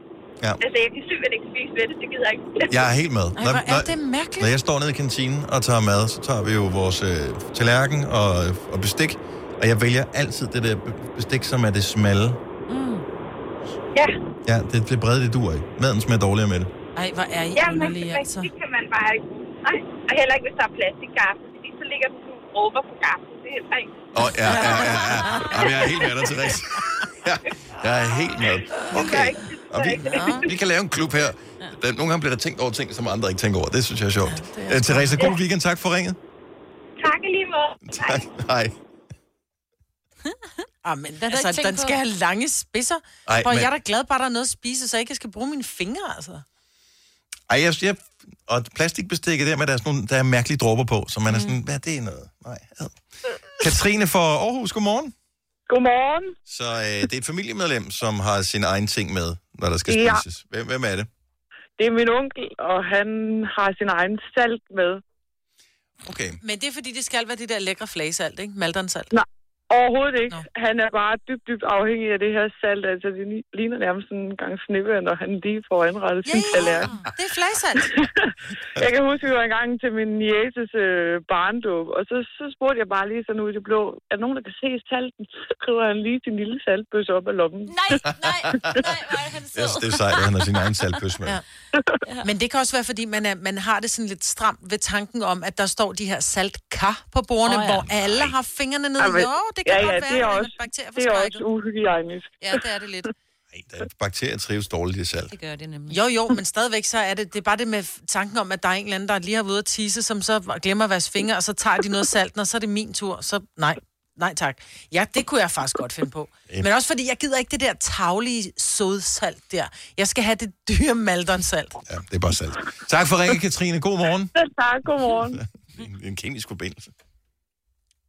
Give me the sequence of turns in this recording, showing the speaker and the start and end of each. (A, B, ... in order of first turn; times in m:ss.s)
0:00.6-0:02.7 A
0:02.7-0:12.4 B
0:03.4-0:04.5 C
0:12.7-0:13.0 D
0:14.4-0:16.7 B
0:17.0-0:18.5 C
0:17.6-0:23.9 A
0:24.1-0:36.2 B
0:24.5-0:25.5 C
0:25.6-0:26.1 A
0:28.9-0:30.1 A
0:30.0-0:30.5 C
0:34.3-0:35.3 C
0:37.0-0:38.2 A
0:37.9-0:38.7 B
0:40.8-0:46.4 C
0:41.2-0:42.0 D
0:43.3-0:43.7 B
0:47.5-0:53.0 B
0:51.3-0:51.6 D
0:53.6-0:55.1 B
0:55.7-0:56.3 E
0:56.5-1:01.1 B
0:59.9-1:00.2 E
1:01.8-1:05.0 E
1:06.0-1:06.4 B
1:06.4-1:09.1 C
1:09.1-1:17.0 E
1:16.2-1:18.0 C
1:18.8-1:28.0 E
1:27.7-1:30.7 D
1:28.3-1:28.8 B
1:29.5-1:31.4 B
1:32.2-1:41.4 C
1:37.5-1:37.9 D
1:37.9-1:38.3 B
1:39.0-1:42.6 E
1:42.4-1:43.1 C
1:43.5-1:45.3 B
1:45.3-1:46.0 D
1:45.9-2:01.8 C
2:01.9-2:04.3 B
2:04.4-2:05.4 E
2:05.2-2:06.9 B